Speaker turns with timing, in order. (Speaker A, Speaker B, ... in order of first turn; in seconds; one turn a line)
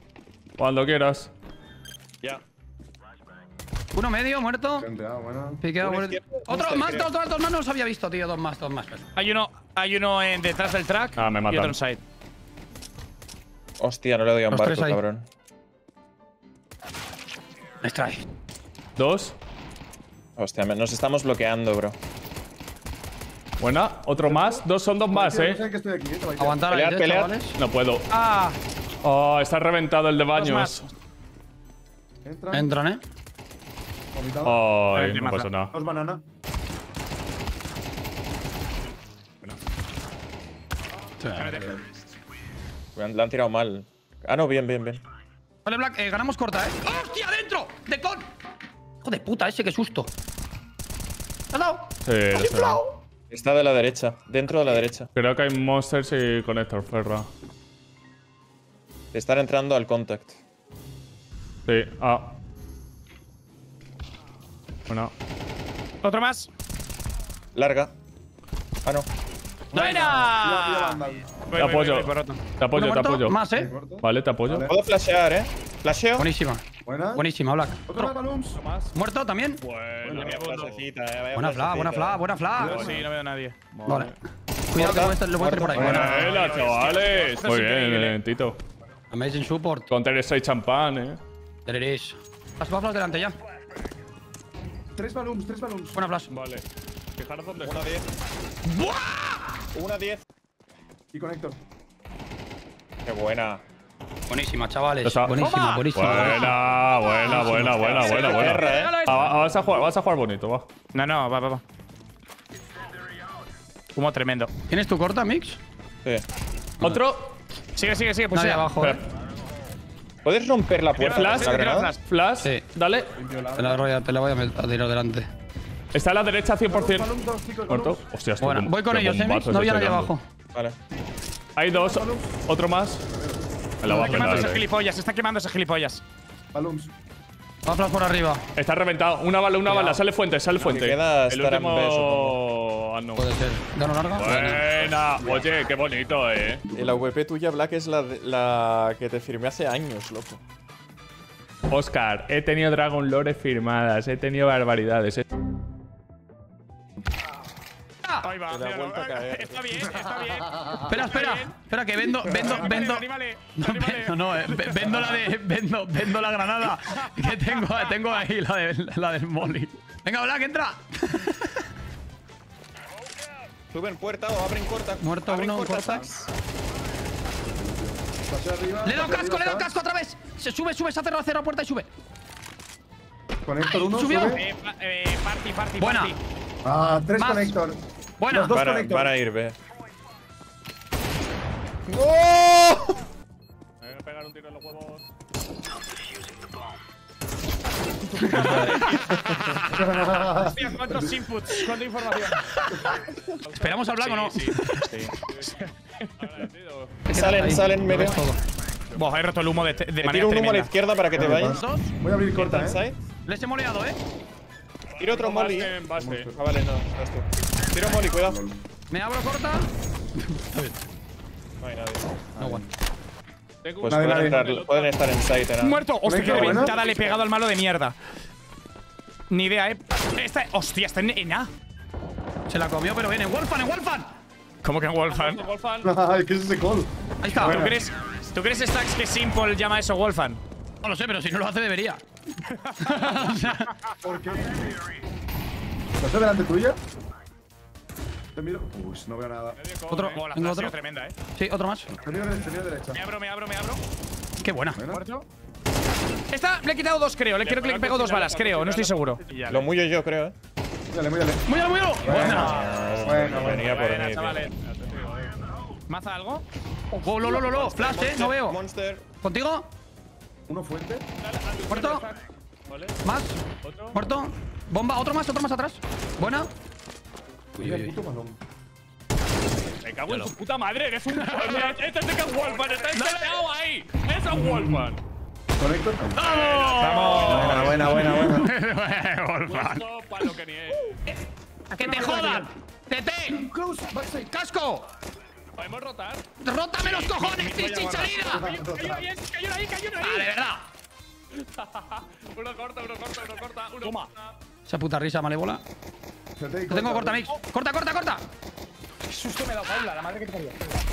Speaker A: 0.6-1.3
Speaker B: 3.9-4.9
Speaker C: 4.8-5.7
Speaker B: 5.6-9.1
Speaker D: 5.8-7.1
Speaker E: 9.2-12.0
Speaker A: 11.2-11.8
Speaker D: 13.8-15.2
Speaker B: 14.5-15.0
Speaker B: 17.8-18.2
Speaker A: 19.0-19.4
Speaker D: 20.4-22.0
Speaker A: 23.6-25.6
Speaker C: 24.1-26.7
Speaker B: 26.4-27.6
Speaker D: 26.7-27.4
Speaker A: 27.6-28.1
Speaker E: 28.1-28.6
Speaker A: 29.0-30.8
Speaker E: 30.3-30.9
Speaker C: 32.2-32.7
Speaker B: 32.5-33.0
Speaker C: 34.1-34.6
Speaker A: 34.5-35.7
Speaker E: 34.9-35.5
Speaker C: 35.7-36.2
Speaker B: 41.2-41.6
Speaker E: 41.4-41.8
Speaker D: 43.0-45.0
Speaker B: 45.6-48.3
Speaker B: 49.0-50.1
Speaker B: 51.5-53.0
Speaker A: 52.1-52.8
Speaker D: 53.3-55.1
Speaker A: 55.1-57.3
Speaker D: 59.1-60.4
Speaker A: 61.7-62.3
Speaker E: 66.0-66.5
Speaker D: 67.5-67.9
Speaker C: 69.7-71.4
Speaker E: 69.7-72.4
Speaker B: 69.7-70.2
Speaker A: 71.5-73.4
Speaker B: 72.7-73.7
Speaker C: 73.5-74.7
Speaker A: 74.0-74.7
Speaker D: 74.7-76.3
Speaker B: 76.2-76.6
Speaker C: 76.9-77.2
Speaker B: 77.1-78.0
Speaker C: 77.9-78.6
Speaker A: 78.6-78.9
Speaker B: 78.9-79.6
Speaker A: 79.6-80.8
Speaker D: 80.1-82.2
Speaker E: 80.2-80.7
Speaker B: 81.3-82.9
Speaker C: 82.5-83.0
Speaker A: 82.7-83.0
Speaker E: 82.7-83.6
Speaker A: 83.7-84.1
Speaker B: 83.9-84.1
Speaker B: 84.7-86.3
Speaker D: 84.8-86.9
Speaker C: 85.7-86.5
Speaker E: 86.0-88.2
Speaker A: 86.0-88.6
Speaker B: 89.1-89.9
Speaker A: 89.9-91.2
Speaker B: 91.7-93.4
Speaker C: 95.0-96.0
Speaker B: 96.0-96.3
Speaker A: 96.3-96.6
Speaker A: 97.2-97.9
Speaker D: 97.6-98.1
Speaker B: 98.7-99.6
Speaker D: 99.7-100.2
Speaker C: 101.1-101.6
Speaker D: 103.0-103.6
Speaker B: 104.3-106.6
Speaker A: 105.0-110.7
Speaker B: 107.2-108.1
Speaker D: 107.8-109.0
Speaker E: 108.0-109.2
Speaker E: 110.9-111.6
Speaker E: 113.9-114.5
Speaker B: 114.7-115.6
Speaker A: 116.8-117.3
Speaker E: 117.8-118.7
Speaker B: 118.3-119.0
Speaker A: 118.8-119.0
Speaker D: 120.2-121.9
Speaker E: 121.0-122.0
Speaker A: 121.0-123.1
Speaker C: 123.2-123.9
Speaker B: 123.5-125.3
Speaker A: 125.9-127.1
Speaker C: 126.7-128.0
Speaker A: 127.7-130.1
Speaker B: 128.4-130.2
Speaker A: 131.6-133.0
Speaker C: 131.7-132.4
Speaker C: 133.1-133.5
Speaker A: 133.8-134.6
Speaker B: 133.9-134.6
Speaker E: 134.0-136.0
Speaker C: 136.5-136.9
Speaker B: 137.7-138.4
Speaker A: 138.6-143.3
Speaker B: 139.7-140.0
Speaker D: 140.6-142.4
Speaker B: 143.2-144.7
Speaker A: 144.2-146.6
Speaker D: 146.7-150.4
Speaker A: 151.7-155.2
Speaker E: 158.2-161.5
Speaker D: 158.5-160.0
Speaker B: 160.8-171.6
Speaker E: 162.3-165.2
Speaker E: 166.9-167.9
Speaker D: 173.7-176.3
Speaker B: 175.0-176.1
Speaker C: 177.4-179.7
Speaker B: 178.8-181.9
Speaker C: 183.4-184.4
Speaker B: 183.6-184.4
Speaker E: 184.3-186.2
Speaker B: 185.8-186.2
Speaker C: 186.6-189.2
Speaker B: 187.2-187.6
Speaker B: 188.2-188.6
Speaker D: 188.5-189.6
Speaker D: 191.9-193.0
Speaker A: 193.8-195.0
Speaker E: 198.1-198.9
Speaker D: 198.3-199.7
Speaker E: 199.7-202.5
Speaker C: 199.8-201.1
Speaker B: 202.5-203.0
Speaker A: 203.4-204.5
Speaker B: 203.5-204.9
Speaker E: 204.2-205.7
Speaker A: 205.2-205.5
Speaker A: 206.2-207.1
Speaker B: 207.1-208.4
Speaker D: 207.1-208.2
Speaker E: 208.9-210.7
Speaker D: 210.0-211.6
Speaker C: 211.1-212.8
Speaker B: 211.2-211.9
Speaker D: 212.3-213.0
Speaker B: 213.2-214.0
Speaker A: 215.0-216.3
Speaker D: 215.0-215.8
Speaker C: 215.9-216.4
Speaker D: 216.3-218.4
Speaker C: 218.2-218.6
Speaker B: 218.9-219.7
Speaker B: 220.2-220.8
Speaker D: 221.6-222.3
Speaker C: 222.3-222.7
Speaker B: 222.4-222.6
Speaker A: 223.6-225.1
Speaker D: 223.8-225.9
Speaker C: 223.9-224.5
Speaker E: 225.6-228.0
Speaker C: 226.0-226.8
Speaker A: 226.5-227.2
Speaker E: 229.3-231.5
Speaker B: 232.5-234.1
Speaker E: 234.6-235.4
Speaker A: 235.1-235.9
Speaker C: 235.8-237.8
Speaker B: 237.2-237.8
Speaker E: 237.5-240.4
Speaker B: 240.8-242.0
Speaker E: 242.5-243.7
Speaker B: 242.8-243.7
Speaker C: 244.0-244.7
Speaker C: 246.0-246.8
Speaker C: 248.3-249.6
Speaker A: 249.6-250.3
Speaker B: 249.9-250.7
Speaker E: 250.0-251.2
Speaker B: 251.3-251.9
Speaker C: 252.0-253.0
Speaker E: 252.9-253.8
Speaker B: 254.4-254.8
Speaker C: 254.8-255.0
Speaker E: 254.9-255.3
Speaker E: 256.3-259.7
Speaker A: 257.4-259.5
Speaker D: 259.5-260.4
Speaker C: 260.9-261.5
Speaker B: 261.5-262.7
Speaker C: 262.0-263.7
Speaker E: 262.1-262.9
Speaker D: 262.4-264.5
Speaker A: 262.9-265.3
Speaker E: 263.6-264.5
Speaker E: 265.9-266.4
Speaker B: 266.9-268.6
Speaker D: 267.1-269.1
Speaker B: 269.2-269.7
Speaker C: 270.5-271.1
Speaker A: 271.2-272.1
Speaker B: 271.7-272.1
Speaker E: 271.8-272.1
Speaker A: 272.7-273.0
Speaker B: 273.0-276.5
Speaker A: 273.6-274.0
Speaker B: 277.6-278.0
Speaker C: 277.6-278.4
Speaker A: 279.8-285.0
Speaker B: 280.1-280.3
Speaker B: 281.1-281.8
Speaker B: 282.9-283.4
Speaker C: 284.3-284.9
Speaker C: 285.6-286.4
Speaker B: 286.1-290.4
Speaker A: 286.2-287.9
Speaker E: 286.8-288.2
Speaker C: 287.1-288.4
Speaker D: 287.5-288.5
Speaker A: 289.5-291.0
Speaker B: 291.7-293.5
Speaker E: 291.8-292.4
Speaker C: 291.8-292.5
Speaker C: 293.3-294.3
Speaker B: 294.0-294.9
Speaker A: 295.6-296.2
Speaker B: 296.4-298.5
Speaker E: 296.8-300.3
Speaker C: 298.3-299.1
Speaker A: 299.6-299.9
Speaker B: 300.0-300.6
Speaker A: 301.4-304.1
Speaker E: 303.8-304.1
Speaker B: 304.7-305.6
Speaker C: 306.4-307.3
Speaker B: 306.7-308.3
Speaker E: 309.1-310.8